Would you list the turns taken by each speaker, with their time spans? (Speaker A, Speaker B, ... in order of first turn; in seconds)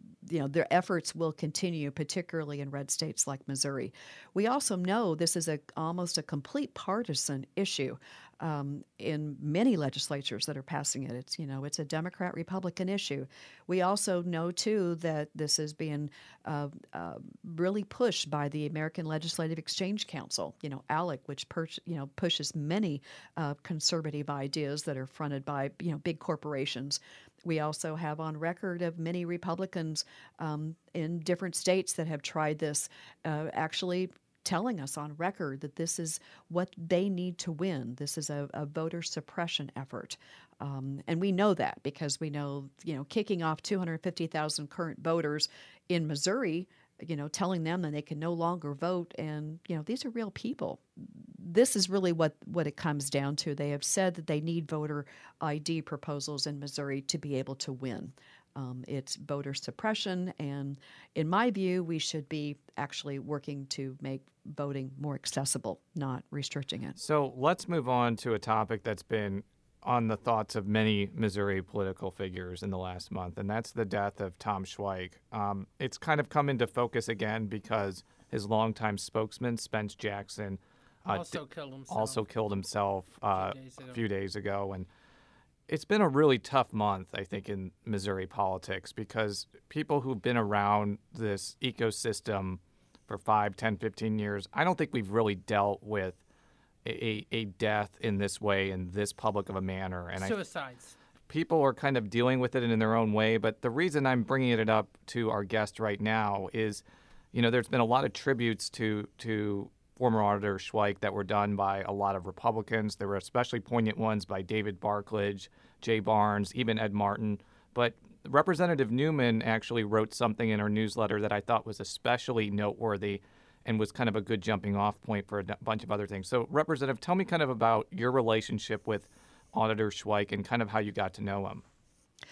Speaker A: 0.2-67.0
Speaker B: 67.0-84.9, 85.7-96.2, 96.8-100.4, 101.3-131.6
Speaker C: 81.1-82.2, 83.3-84.0, 100.2-101.0